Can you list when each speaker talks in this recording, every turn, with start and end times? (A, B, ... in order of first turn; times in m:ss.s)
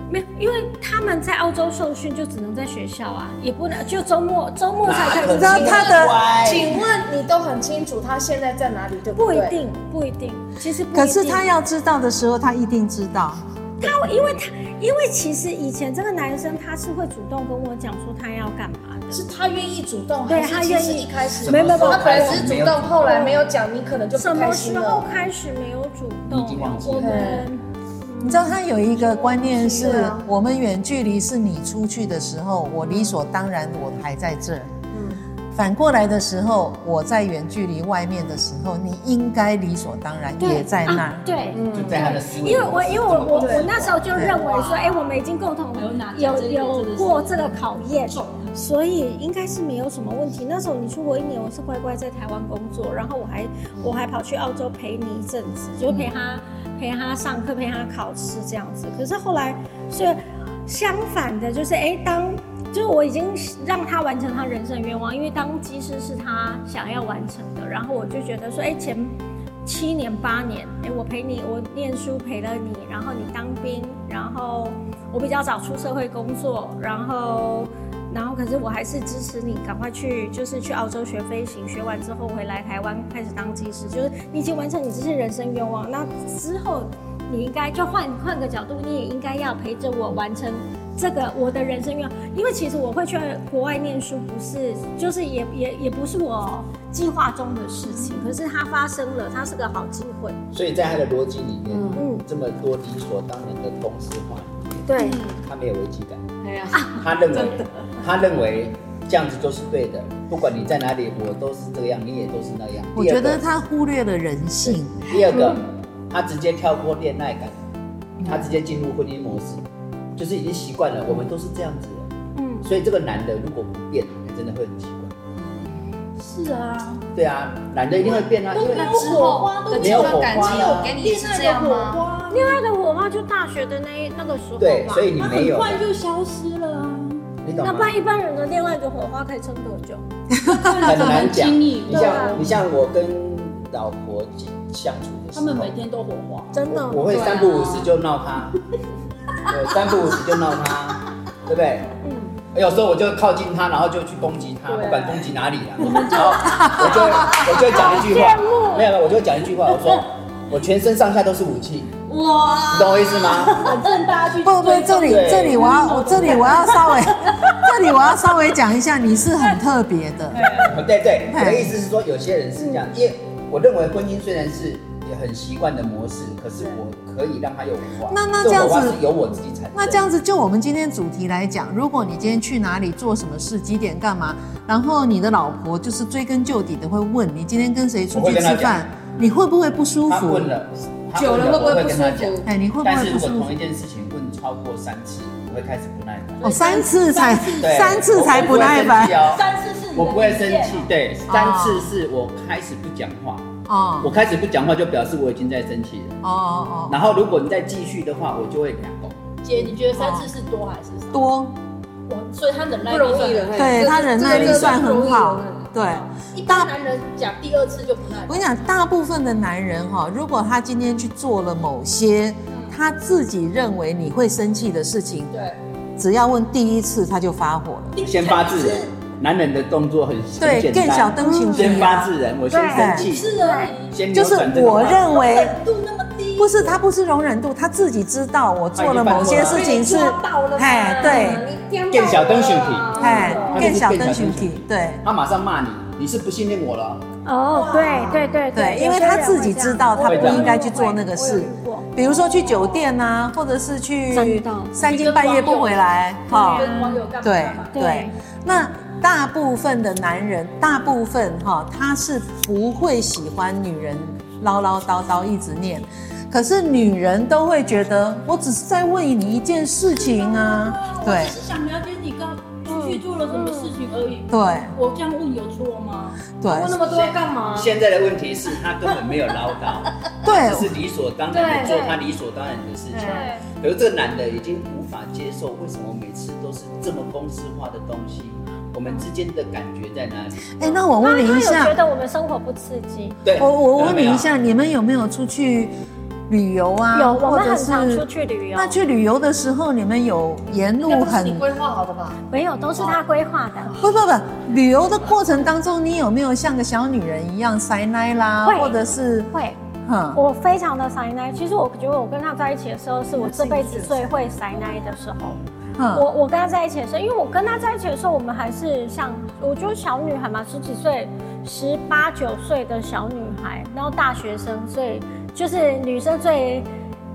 0:00.1-0:05.9 A
0:04.8-0:06.8 B
0:05.3-0:09.6 C
0:05.4-0:06.2 D
0:09.2-0:11.4 A
0:10.9-0:14.0 D
0:13.8-0:19.2 A
0:19.1-0:25.1 C
0:20.3-0:23.4 A
0:21.4-0:23.1 B
0:24.2-0:30.1 A
0:26.3-0:27.3 B
0:27.0-0:27.5 C
0:28.2-0:34.7 D
0:29.8-0:30.2 C
0:34.9-0:35.2 C
0:35.5-0:41.2 D
0:40.4-1:40.4 A
0:41.5-0:42.2 C
0:41.7-0:44.1 B
0:43.4-0:43.7 C
0:44.2-0:48.6 E
1:40.5-1:44.8 B
1:41.7-1:42.0 C
1:41.9-1:42.2 A
1:44.9-1:45.2 A
1:45.0-1:45.3 E
1:45.4-1:46.2 B
1:46.4-1:47.4 C
1:46.7-1:47.6 A
1:46.9-1:53.4 B
1:53.0-1:55.2 D
1:55.1-1:57.6 B
1:58.2-1:59.6 B
2:00.2-2:02.0 B
2:02.4-2:02.7 A
2:02.6-2:05.1 B
2:06.2-2:07.0 E
2:07.1-2:09.2 B
2:08.0-2:12.6 E
2:08.6-2:12.0 C
2:09.7-2:11.0 B
2:12.3-2:15.1 A
2:14.6-2:15.8 B
2:15.2-2:17.3 E
2:17.4-2:17.9 B
2:17.6-2:20.0 A
2:20.3-2:20.9 D
2:20.5-2:22.6 E
2:20.8-2:25.7 B
2:21.9-2:22.4 A
2:25.3-2:26.6 E
2:26.5-2:27.1 A
2:26.7-2:28.6 B
2:27.0-2:27.9 C
2:29.5-2:32.0 B
2:32.0-2:32.3 A
2:32.5-2:41.9 B
2:34.7-2:35.3 E
2:35.8-2:38.0 E
2:36.0-2:37.5 C
2:36.1-2:36.6 A
2:36.5-2:37.0 D
2:37.7-2:38.9 A
2:42.1-2:43.7 C
2:42.1-2:47.9 E
2:42.7-2:43.7 B
2:44.4-2:50.6 D
2:45.0-2:45.6 B
2:46.2-2:46.5 B
2:50.3-2:50.7 E
2:50.6-3:00.1 B
2:51.3-2:51.8 D
2:58.1-2:59.0 D
2:59.8-3:10.5 D
3:08.1-3:08.8 B
3:10.1-3:16.4 B
3:11.2-3:12.5 C
3:12.4-3:13.5 D
3:16.4-3:19.3 D
3:16.4-3:20.9 E
3:17.6-3:23.5 B
3:21.3-3:21.9 D
3:23.7-3:24.1 D
3:24.0-3:26.2 B
3:26.2-3:27.0 D
3:26.9-3:29.3 B
3:29.4-3:31.2 E
3:29.9-3:30.3 D
3:31.1-3:31.6 D
3:32.1-3:35.3 E
3:32.9-3:35.6 C
3:33.6-3:36.7 D
3:34.4-3:34.7 B
3:36.2-3:38.4 E
3:38.3-3:45.3 D
3:42.5-3:42.8 E
3:45.3-3:45.6 E
3:46.0-3:48.0 D
3:48.0-3:48.9 E
3:48.0-3:53.4 B
3:50.4-3:52.1 D
3:51.2-3:51.9 A
3:52.5-3:53.8 A
3:52.7-3:53.1 D
3:53.0-3:53.9 E
3:53.9-3:55.2 B
3:54.1-3:55.6 D
3:54.8-3:56.8 E
3:56.4-4:01.5 D
3:58.8-3:59.8 B
3:59.4-4:03.8 C
3:59.8-4:00.3 E
4:01.0-4:01.4 A
4:01.9-4:07.0 B
4:03.0-4:03.6 E
4:03.0-4:05.0 D
4:03.1-4:03.4 A
4:07.2-4:11.9 A
4:07.5-4:08.3 E
4:07.7-4:08.3 C
4:08.5-4:31.4 D
4:10.1-4:10.6 B
4:14.1-4:14.9 A
4:14.8-4:17.7 E
4:16.3-4:17.0 A
4:17.7-4:18.1 A
4:29.9-4:36.2 E
4:32.7-4:33.7 A
4:34.3-4:34.8 D
4:36.4-4:36.8 D
4:36.5-4:37.7 C
4:36.8-4:50.6 B
4:40.2-4:40.7 D
4:41.3-4:41.8 C
4:41.6-4:42.0 A
4:42.9-4:43.3 C
4:43.0-4:43.4 A
4:50.6-4:51.8 D
4:50.7-4:53.2 A
4:53.2-4:54.3 B
4:53.4-4:55.7 D
4:56.3-5:01.4 D
4:56.9-4:58.8 A
5:00.9-5:02.2 C
5:02.3-5:03.7 A
5:03.7-5:03.9 C
5:03.8-5:09.3 D
5:08.4-5:08.8 A
5:09.3-5:09.6 A
5:09.8-5:10.2 D
5:10.1-5:15.4 A
5:13.1-5:14.9 C
5:15.8-5:16.1 D
5:15.9-5:26.7 A